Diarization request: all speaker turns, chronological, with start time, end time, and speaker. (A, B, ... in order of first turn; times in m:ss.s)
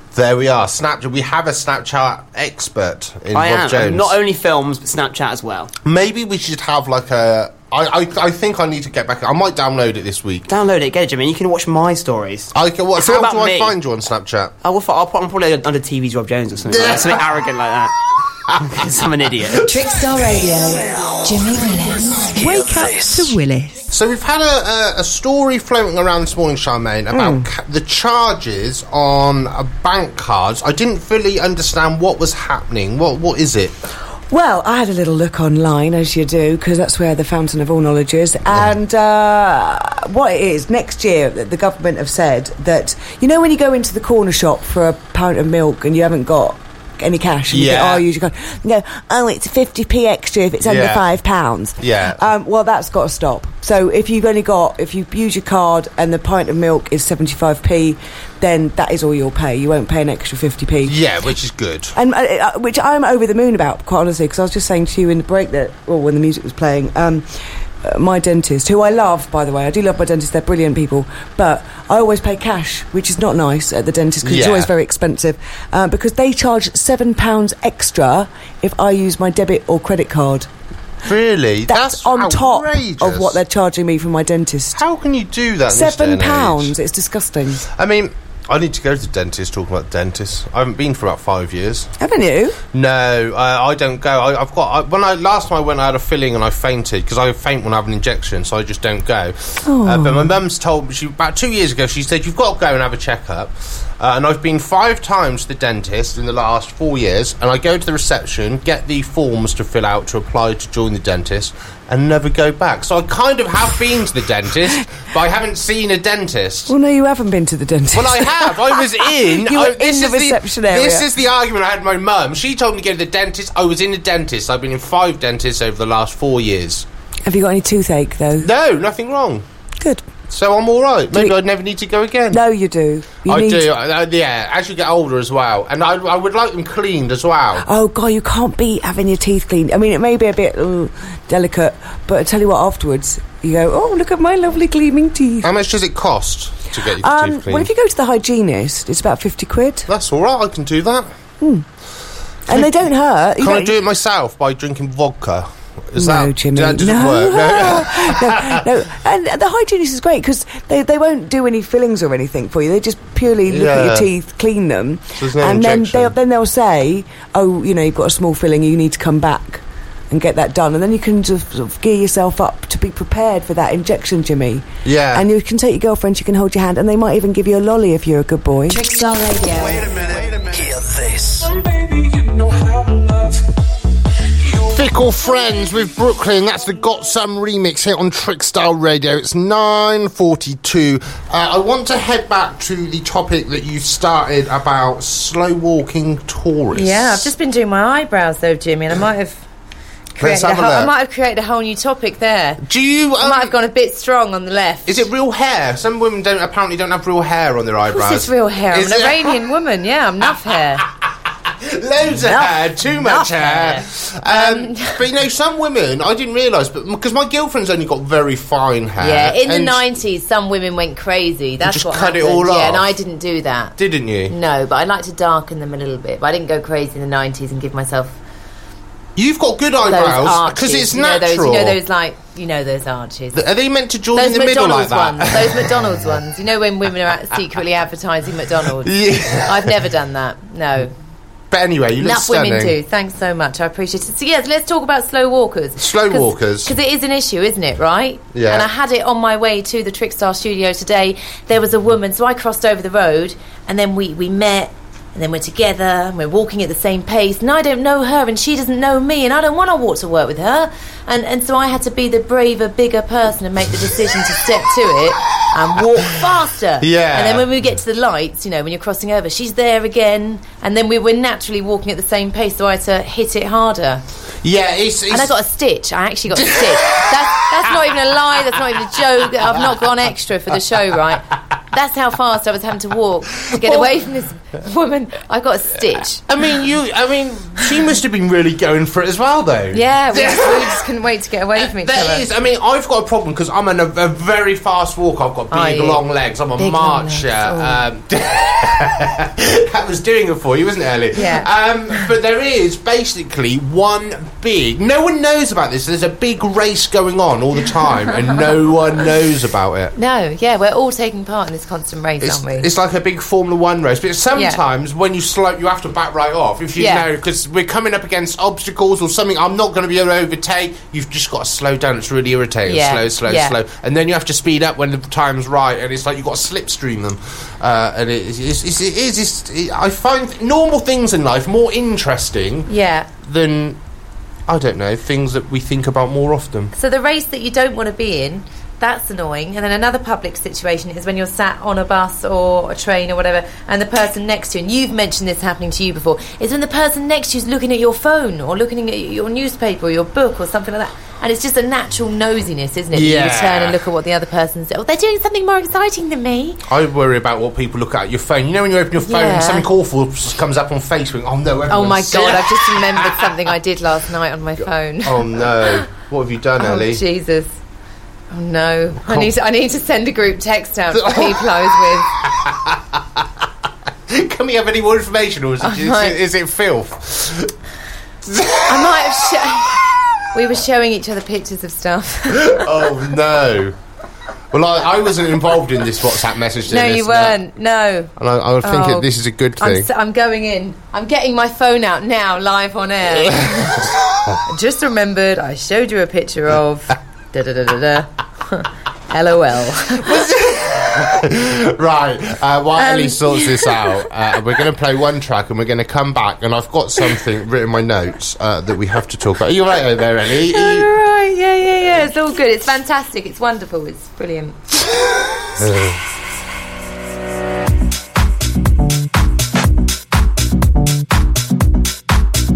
0:00.1-0:04.1 A
0:03.3-0:05.7 B
0:05.8-0:10.5 A
0:10.5-0:13.8 B
0:12.5-0:14.5 A
0:14.6-0:19.7 B
0:16.7-0:17.3 A
0:18.5-0:18.8 A
0:19.6-0:22.9 C
0:22.4-0:23.8 D
0:22.6-0:23.3 E
0:23.9-0:33.7 A
0:27.1-0:27.5 D
0:34.3-1:01.0 D
0:47.5-0:48.0 A
0:50.6-0:51.0 A
0:51.8-0:52.2 A
1:00.8-1:02.0 A
1:02.0-1:07.3 D
1:07.8-1:20.5 D
1:14.2-1:14.7 A
1:21.0-1:23.4 A
1:21.7-1:24.8 D
1:24.8-1:26.8 A
1:25.7-1:27.6 D
1:27.6-1:31.9 A
1:32.0-1:32.6 D
1:32.7-1:56.7 A
1:39.6-1:40.3 D
1:56.7-2:01.1 D
1:57.9-2:06.9 A
2:07.3-2:08.5 D
2:08.4-2:09.4 A
2:09.8-2:10.1 D
2:10.3-2:12.4 A
2:12.3-2:13.7 D
2:13.3-2:17.7 A
2:17.6-2:25.5 D
2:25.4-2:27.7 A
2:27.0-2:29.9 D
2:29.9-2:31.1 A
2:32.5-2:33.8 D
2:33.4-2:38.7 A
2:36.0-2:58.8 D
2:43.5-2:44.1 A
2:45.2-2:46.2 A
2:54.8-2:55.3 A
2:58.7-2:59.9 C
2:59.6-3:03.5 E
3:04.4-3:05.7 E
3:04.6-3:17.3 A
3:16.7-3:19.4 F
3:20.2-3:22.6 F
3:20.2-3:20.9 A
3:22.6-3:23.5 A
3:23.2-3:25.0 F
3:24.9-3:29.4 A
3:27.9-3:30.9 F
3:30.2-3:39.8 A
3:33.0-3:35.0 F
3:39.0-3:43.8 F
3:41.6-3:42.9 A
3:43.8-3:44.4 A
3:44.3-3:48.2 F
3:49.2-3:51.8 A
3:49.8-3:53.4 F
3:53.3-3:56.2 A
3:54.1-4:00.9 F
3:58.8-3:59.9 A
4:01.5-4:02.8 A
4:02.0-4:34.0 F
4:05.8-4:06.7 A
4:08.3-4:08.7 A
4:26.8-4:27.5 A
4:34.4-4:35.3 A
4:35.1-4:46.2 F
4:36.3-4:39.7 A
4:43.5-4:43.9 A
4:46.3-4:50.8 A
4:49.7-4:52.3 F
4:51.6-5:09.9 A
4:55.5-4:56.0 F
4:56.6-4:57.8 F
5:01.2-5:01.5 F
5:10.0-5:12.7 F
5:12.2-5:32.7 A
5:16.8-5:17.1 F
5:22.7-5:23.6 F
5:32.7-5:33.1 F
5:33.2-5:33.8 A
5:34.5-5:36.7 A
5:36.8-5:56.6 F
5:52.9-5:53.8 A
5:56.7-6:03.5 A
5:59.0-5:59.7 F
6:01.7-6:05.8 F
6:05.0-6:07.0 A
6:06.6-6:07.5 F
6:08.3-6:12.1 F
6:09.0-6:09.3 A
6:10.9-6:11.6 A
6:12.2-6:13.4 A
6:14.1-6:17.5 A
6:15.6-6:16.2 F
6:18.3-6:19.2 A
6:18.7-6:19.8 F
6:20.3-6:22.7 F
6:22.3-6:23.8 A
6:24.5-6:27.4 A
6:26.7-6:40.3 F
6:28.2-6:29.9 A
6:33.2-6:33.9 A
6:40.0-6:50.9 A
6:42.8-6:44.0 F
6:50.5-6:54.6 F
6:55.6-6:56.0 A